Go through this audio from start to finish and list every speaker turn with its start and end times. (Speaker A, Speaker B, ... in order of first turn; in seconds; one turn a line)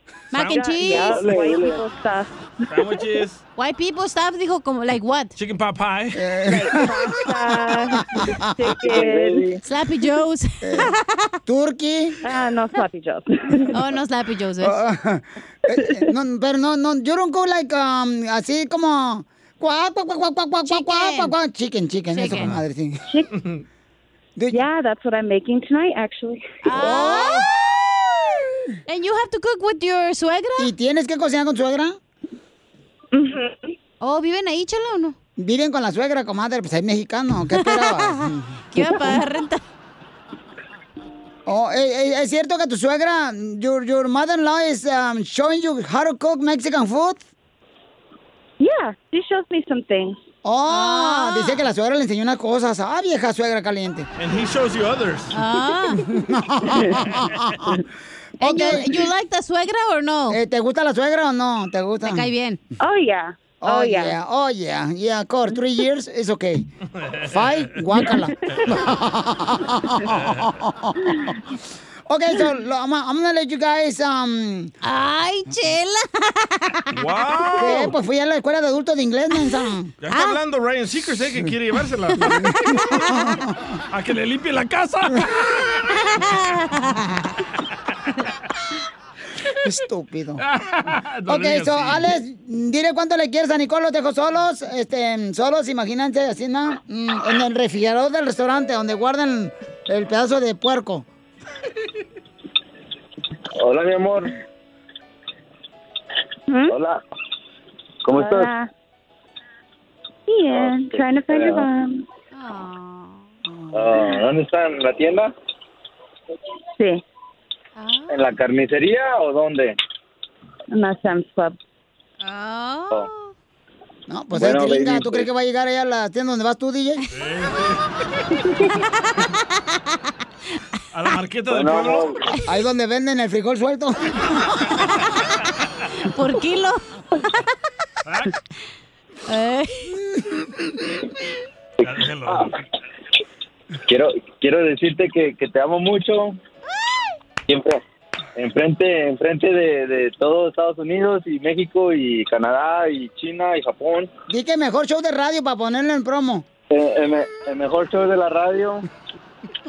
Speaker A: 0.3-1.4
Speaker B: 0.4-2.3
Speaker C: 1.2-1.8
Speaker D: 2.7-3.4
Speaker A: 3.5-5.3
Speaker D: 5.3-6.2
Speaker E: 6.1-6.9
Speaker B: 6.5-9.5
Speaker E: 8.1-8.7
Speaker C: 8.9-9.6
Speaker A: 9.6-11.3
Speaker E: 10.6-12.2
Speaker B: 12.2-13.7
Speaker A: 13.7-14.8
Speaker E: 14.6-23.0
Speaker A: 20.7-21.3
Speaker A: 22.1-22.6
Speaker E: 24.4-24.6
Speaker B: 24.5-26.4
Speaker A: 26.6-27.5
Speaker E: 26.7-27.6
Speaker A: 28.9-30.7
Speaker E: 30.6-32.0
Speaker B: 33.1-33.7
Speaker A: 34.0-35.1
Speaker E: 35.4-38.5
Speaker A: 37.5-39.6
Speaker E: 41.5-47.2
Speaker B: 48.6-50.2
Speaker E: 50.4-54.1
Speaker A: 50.7-51.6
Speaker D: 54.1-55.3
Speaker A: 55.3-56.1
Speaker E: 56.0-57.7
Speaker E: 58.4-59.1
Speaker A: 58.4-60.4
Speaker E: 60.3-62.3
Speaker A: 62.0-62.6
Speaker B: 62.8-64.1
Speaker E: 63.6-66.7
Speaker E: 67.3-71.3
Speaker E: 72.1-74.7
Speaker A: 74.8-76.8
Speaker D: 76.9-77.9
Speaker E: 77.6-79.9
Speaker D: 80.0-82.4
Speaker A: 80.1-80.4
Speaker E: 83.1-83.5
Speaker D: 83.9-85.3
Speaker A: 86.2-87.0
Speaker E: 89.6-90.4
Speaker D: 90.4-92.1
Speaker E: 91.3-101.0
Speaker C: 103.6-104.3
Speaker B: 106.5-106.8
Speaker C: 106.7-107.0
Speaker C: 108.0-108.5
Speaker B: 108.1-108.7
Speaker B: 110.3-112.0
Speaker C: 110.5-111.6
Speaker A: 112.3-113.2
Speaker C: 113.8-115.3
Speaker B: 116.8-117.0
Speaker A: 117.8-118.2
Speaker C: 118.1-119.7
Speaker B: 120.7-121.6
Speaker A: 122.2-123.3
Speaker E: 124.1-127.0
Speaker C: 124.3-125.3
Speaker D: 127.1-127.8
Speaker D: 130.9-132.1
Speaker C: 131.5-132.2
Speaker E: 132.4-134.5
Speaker A: 136.1-137.0
Speaker D: 138.1-138.3
Speaker A: 139.3-139.9
Speaker C: 141.8-142.4
Speaker D: 141.8-142.5
Speaker C: 143.9-146.3
Speaker C: 147.5-147.8
Speaker C: 148.3-154.1
Speaker E: 154.3-156.4
Speaker C: 156.7-158.8